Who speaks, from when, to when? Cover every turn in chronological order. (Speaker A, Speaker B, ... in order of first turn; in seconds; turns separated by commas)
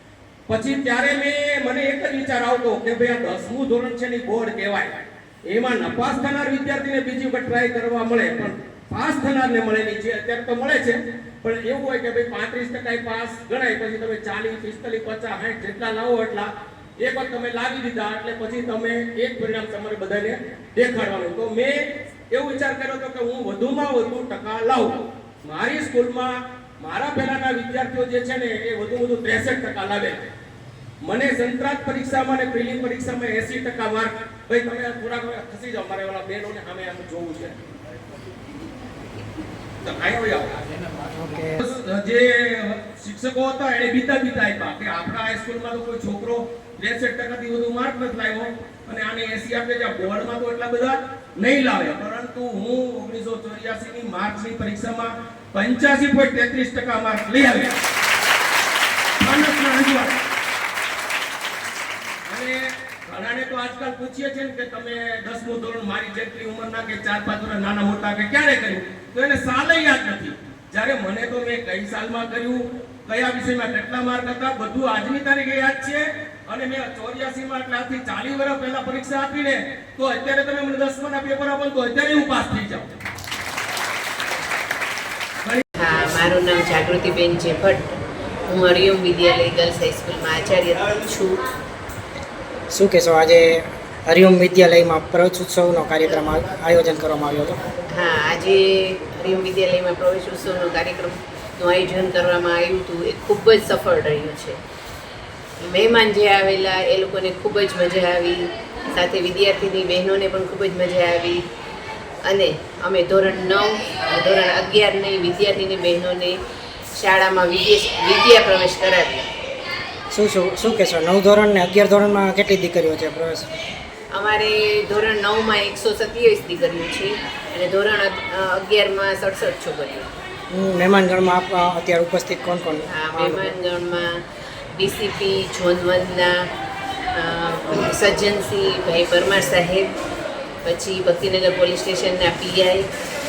Speaker A: 0.5-4.9, Speaker A: 5.5-30.2, Speaker A: 31.0-37.6, Speaker A: 39.8-40.6, Speaker B: 41.1-41.6, Speaker A: 41.6-57.7, Speaker A: 59.2-60.2, Speaker A: 62.3-82.9, Speaker C: 85.8-87.9, Speaker C: 88.5-91.5, Speaker B: 92.7-97.6, Speaker C: 97.9-104.6, Speaker C: 105.6-111.4, Speaker C: 112.2-116.4, Speaker C: 117.0-119.3, Speaker B: 120.1-123.5, Speaker C: 124.1-130.1, Speaker B: 130.5-133.6, Speaker C: 132.9-134.1, Speaker C: 134.8-136.4, Speaker C: 137.2-139.9, Speaker C: 140.6-142.9